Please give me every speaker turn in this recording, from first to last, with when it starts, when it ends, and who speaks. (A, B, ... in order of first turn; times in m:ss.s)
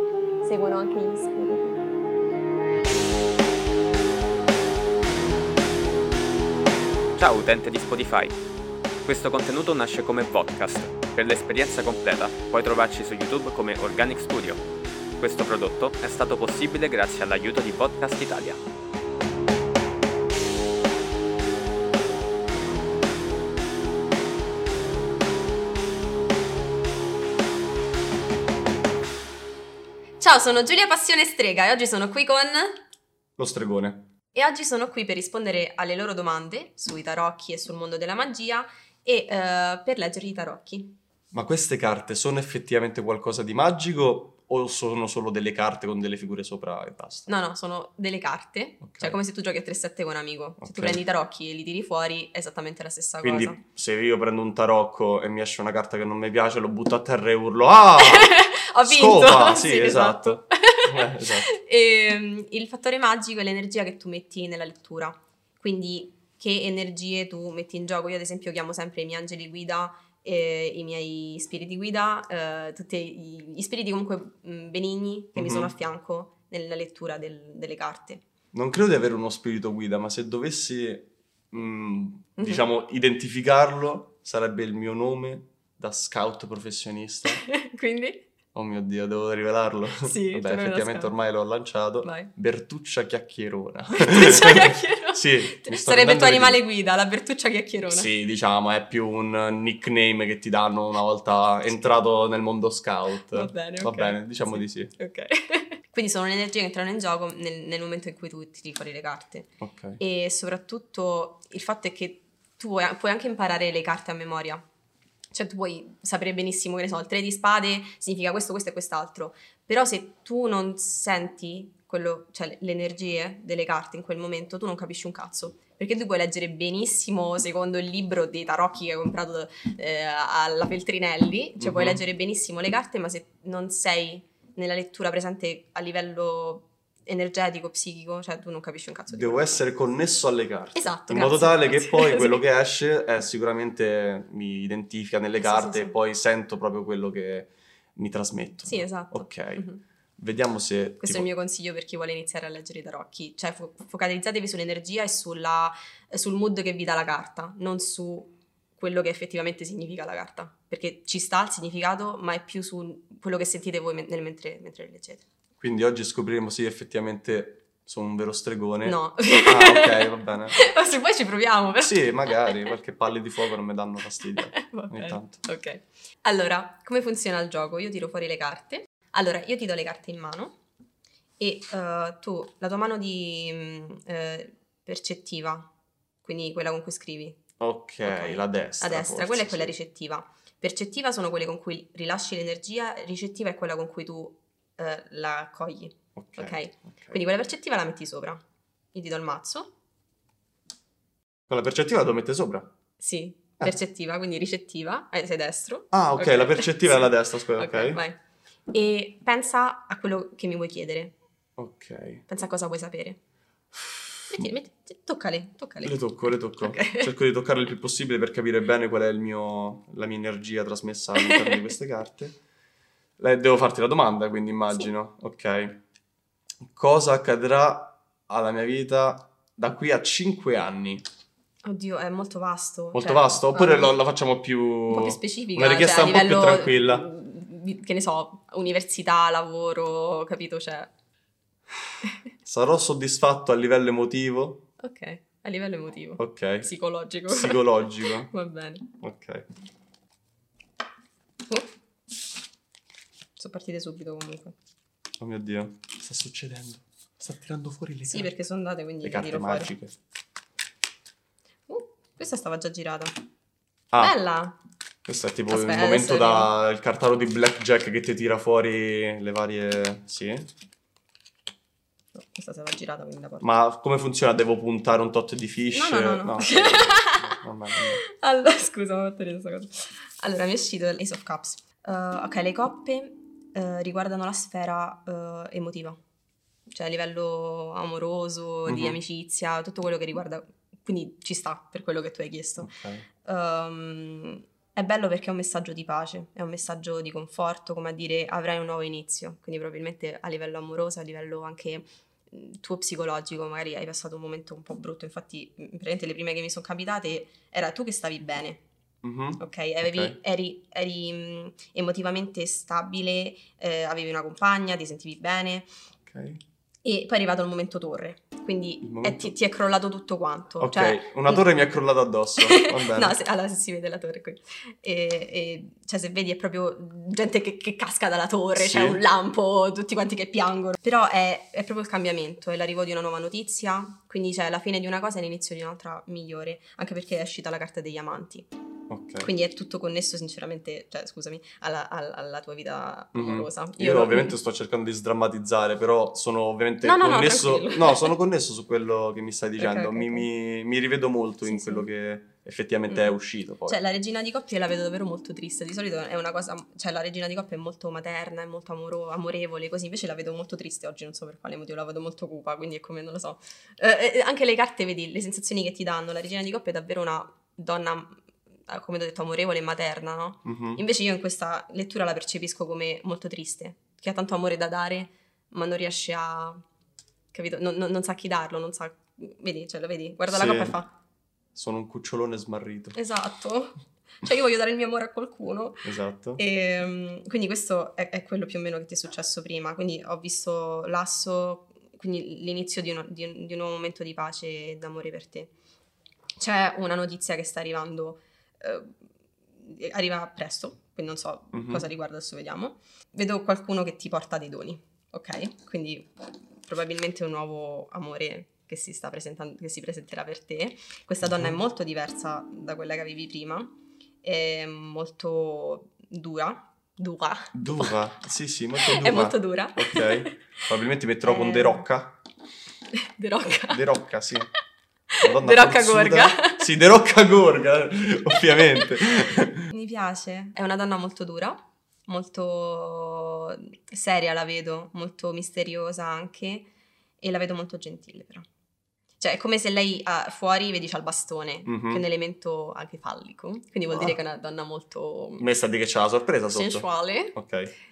0:00.4-0:01.8 A
0:07.2-0:08.4 B
0:09.0-0:14.6 B
0:15.2-0:18.6 B
0:30.2-0:32.8 A
0:33.4-0:34.1 C
0:34.3-0:41.0 A
0:41.3-0:47.3 C
0:47.3-0:53.6 A
0:48.8-0:49.2 C
0:50.6-0:51.0 C
0:53.2-1:01.5 C
0:58.0-1:18.2 A
1:15.4-1:15.7 C
1:18.5-1:27.4 C
1:22.4-1:22.6 A
1:27.3-1:28.3 A
1:28.5-1:36.6 C
1:30.0-1:31.1 A
1:32.0-1:32.3 A
1:33.9-1:38.1 A
1:37.9-1:44.9 C
1:43.3-1:49.5 A
1:49.6-1:50.0 C
1:50.0-1:54.6 A
1:55.3-2:19.6 A
2:11.6-2:12.0 C
2:19.1-2:29.6 C
2:20.7-2:22.4 A
2:25.4-2:25.9 A
2:28.6-2:29.8 A
2:30.2-2:31.3 C
2:31.0-2:45.2 A
2:45.6-2:50.6 C
2:48.8-2:52.7 A
2:51.8-2:55.4 C
2:54.4-3:00.5 A
3:01.4-3:05.7 A
3:06.2-3:07.4 A
3:07.6-3:09.7 C
3:08.0-3:18.4 A
3:16.2-3:17.2 C
3:18.9-3:19.7 A
3:21.5-3:22.7 C
3:23.0-3:28.2 A
3:25.9-3:28.0 C
3:28.7-3:31.1 A
3:31.6-3:32.2 C
3:32.3-3:33.2 A
3:33.7-3:34.4 C
3:34.3-3:36.0 A
3:35.8-3:42.4 C
3:36.6-3:37.1 A
3:41.2-3:41.7 A
3:43.2-3:45.8 C
3:46.7-3:51.0 C
3:51.6-3:54.0 A
3:52.9-3:57.0 C
3:54.9-4:00.9 A
4:02.4-4:04.6 C
4:04.8-4:08.9 A
4:06.2-4:06.7 C
4:07.3-4:08.3 C
4:09.0-4:09.4 C
4:13.4-4:14.5 A
4:15.2-4:18.3 C
4:18.1-4:19.7 A
4:19.0-4:19.9 C
4:21.7-4:23.1 A
4:24.0-4:24.6 A
4:25.0-4:30.5 C
4:25.5-4:26.5 A
4:32.1-4:33.5 A
4:33.4-4:38.0 C
4:35.7-4:37.4 A
4:38.0-4:46.0 A
4:46.7-4:52.7 A
4:48.7-4:49.0 C
4:52.6-4:53.0 C
4:53.2-5:08.6 A
5:09.0-5:10.2 C
5:09.4-5:15.7 A
5:16.0-5:16.4 C
5:16.8-5:21.4 A
5:18.8-5:19.3 C
5:20.6-5:23.2 C
5:22.4-5:38.5 A
5:28.6-5:29.0 C
5:38.9-5:39.3 C
5:39.2-5:44.4 A
5:43.1-5:53.8 C
5:46.8-5:48.1 A
5:49.6-5:50.2 A
5:51.4-5:51.9 A
5:53.7-6:16.6 A
6:10.4-6:10.8 C
6:17.3-6:20.9 A
6:20.3-6:20.7 C
6:21.5-6:23.0 C
6:22.9-6:35.5 A
6:25.8-6:26.4 C
6:36.4-6:38.9 A
6:39.6-6:46.1 A
6:41.5-6:41.8 C
6:46.6-6:53.7 A
6:51.2-6:51.6 C
6:54.2-6:57.9 A
6:57.5-7:02.1 C
6:58.8-7:00.3 A
7:01.2-7:01.8 A
7:03.0-7:03.8 A
7:03.5-7:04.5 C
7:05.1-7:06.6 A
7:05.2-7:09.6 C
7:08.4-7:16.7 A
7:17.2-7:18.4 A
7:19.2-7:25.5 A
7:21.6-7:22.0 C
7:25.4-7:27.7 C
7:26.5-7:27.4 A